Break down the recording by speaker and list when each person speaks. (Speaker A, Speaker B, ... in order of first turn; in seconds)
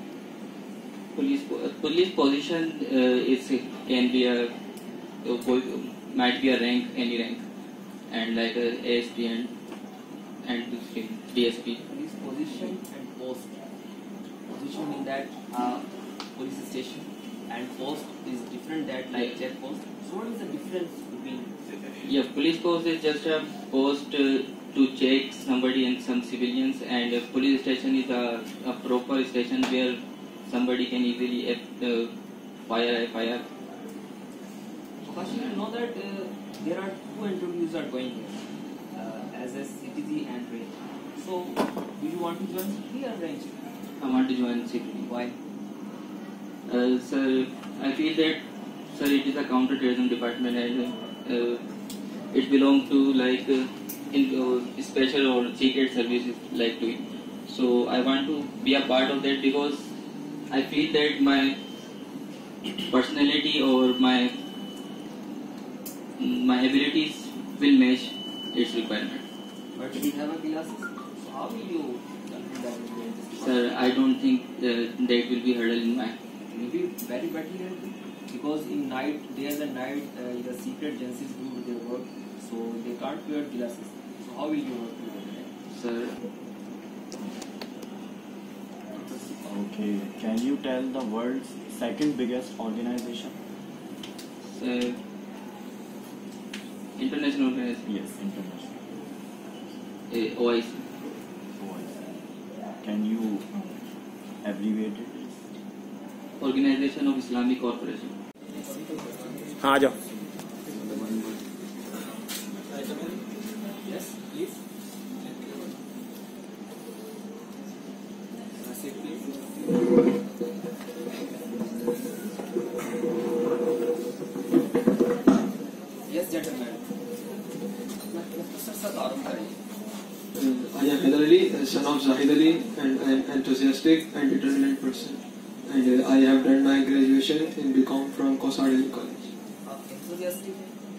Speaker A: 1.1-4.5, 5.2-7.4, 8.1-9.5, 10.4-11.8, 22.0-32.1, 32.6-33.5, 44.0-45.1, 46.7-51.6, 52.3-59.9, 60.5-61.6, 62.9-64.4, 66.2-69.2, 73.3-76.2, 85.7-86.1, 94.5-95.0, 97.0-97.8, 100.1-100.8, 106.4-108.1
Speaker B: 11.9-13.6, 14.5-21.5, 35.0-38.4, 38.9-43.5, 45.0-45.4, 69.8-73.7, 76.5-85.5, 108.5-109.9, 113.8-114.6, 118.6-119.3, 126.1-126.8, 128.1-129.6, 139.6-140.8
Speaker C: 89.1-93.3, 97.9-98.8, 101.5-101.9, 102.8-103.5, 104.4-105.3, 110.7-111.4
Speaker D: 112.7-113.2, 130.3-139.3